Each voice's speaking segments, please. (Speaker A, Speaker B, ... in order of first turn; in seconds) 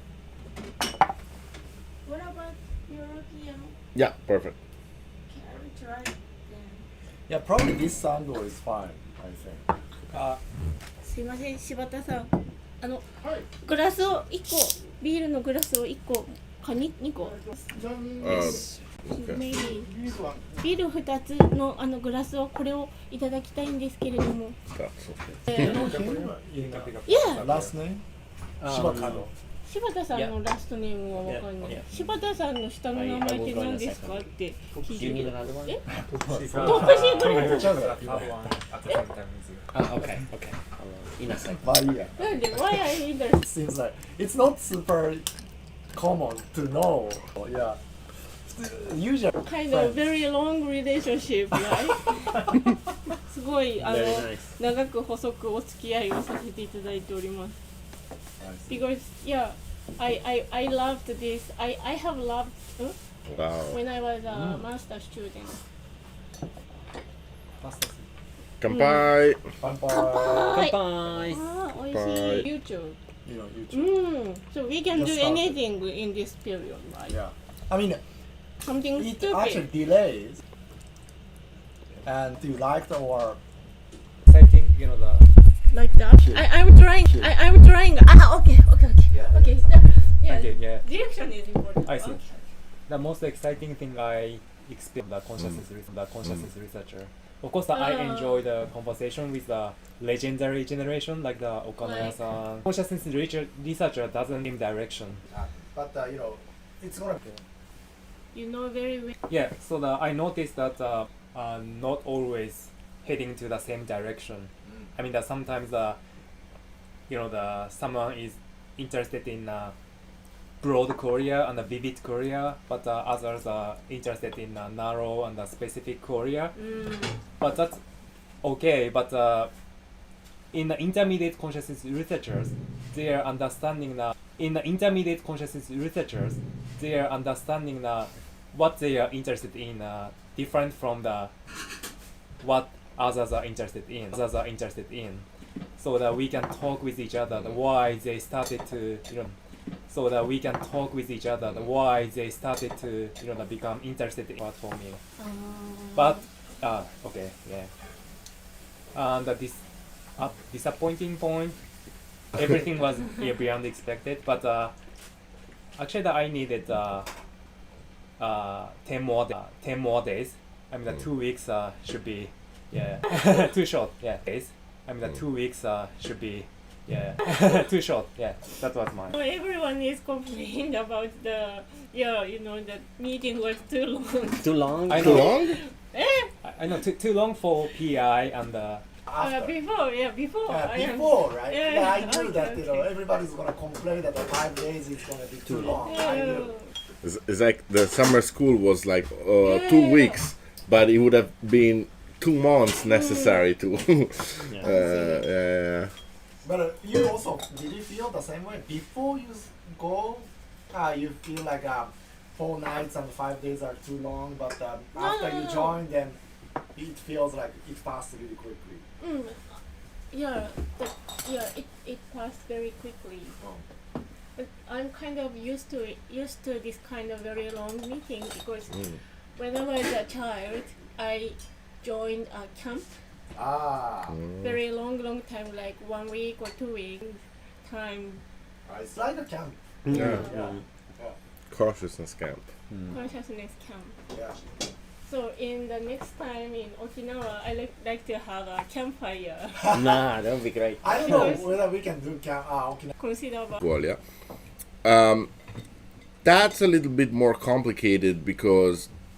Speaker A: 2.0-3.7, 5.3-6.8, 11.0-13.0, 13.6-17.4, 18.3-19.9, 20.6-24.6, 27.1-27.4, 29.6-35.8, 36.5-37.9, 42.2-43.4, 49.4-57.5, 58.7-63.0, 63.7-65.6, 68.7-69.1, 69.9-73.0, 73.7-77.2, 78.6-79.7, 85.7-92.4, 97.7-98.4, 101.8-102.2, 108.3-109.1, 126.5-127.2, 155.2-156.2, 179.1-186.3, 189.2-192.9, 195.8-196.7, 199.4-200.2, 202.9-203.3, 204.6-205.2, 214.9-215.8, 219.0-219.6, 220.1-223.3, 224.3-232.9, 234.4-238.2, 239.9-240.5, 242.9-243.9, 245.0-250.0, 250.8-251.6, 253.0-253.6
Speaker B: 3.9-4.5, 18.2-19.4, 24.7-25.9, 63.3-63.8, 68.6-69.4, 71.8-72.5, 185.0-185.6, 197.0-205.9, 234.1-234.3, 239.9-240.3, 241.5-242.4, 253.6-254.0, 254.8-255.3, 256.2-258.9
Speaker C: 7.3-9.6, 13.2-13.5, 17.2-18.6, 19.7-20.5, 25.5-28.0, 28.6-29.3, 35.9-38.4, 41.4-42.5, 43.4-45.3, 45.9-47.8, 48.5-50.0, 58.4-58.8, 69.6-70.7, 73.2-74.0, 74.9-75.6, 77.1-78.0, 79.0-80.4, 82.0-83.4, 89.1-90.1, 105.3-107.2, 189.1-189.6, 190.5-196.5, 206.4-216.2, 216.7-218.8, 233.3-234.1, 238.7-241.2, 244.1-244.4, 250.8-252.9
Speaker D: 10.1-10.4, 25.4-27.7, 28.7-29.3, 34.7-40.3, 67.6-68.0, 84.2-85.3, 90.2-90.8, 91.8-92.2, 92.9-105.2, 109.3-116.0, 117.1-119.7, 120.6-126.5, 127.4-127.8, 128.4-129.5, 130.5-141.3, 142.4-145.2, 145.8-149.3, 149.9-155.0, 155.9-157.7, 158.9-159.6, 160.2-161.6, 162.3-164.7, 165.8-167.1, 168.2-179.2, 184.9-185.3, 186.4-188.8
Speaker E: 28.6-29.1, 31.2-31.9, 32.9-34.3, 34.9-35.7, 39.7-41.6, 53.8-54.5, 70.5-71.4, 184.4-185.3, 195.4-195.8, 239.8-240.6, 249.7-251.4